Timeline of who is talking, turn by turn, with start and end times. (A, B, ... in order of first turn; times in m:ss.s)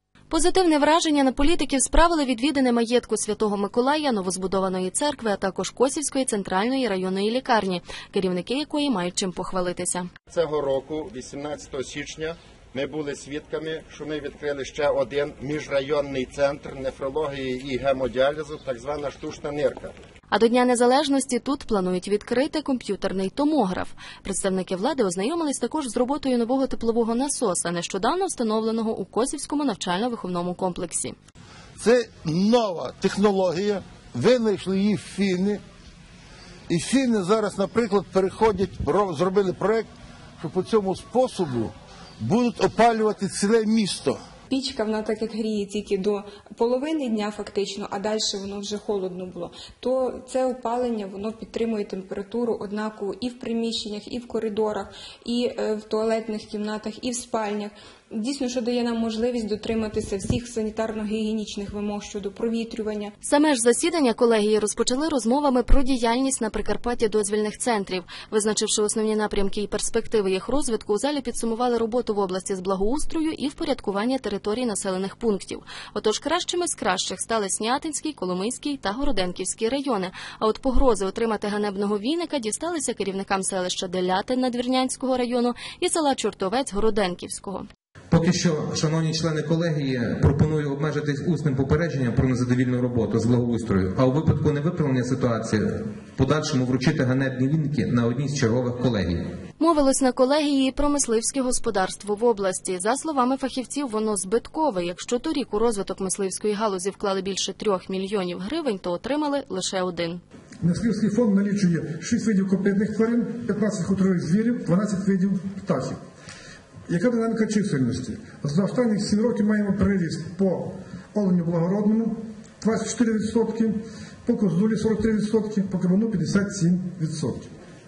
0:00.3-0:10.1 A
0:10.3-0:20.0 B
0:20.3-0:31.2 A
0:31.8-0:35.6 C
0:36.7-0:39.9 C
0:40.4-0:44.2 C
0:44.5-1:03.1 D
1:03.2-1:27.7 A
1:28.1-1:39.2 E
1:39.6-1:50.2 A
1:50.6-1:56.0 F
1:56.9-2:07.5 F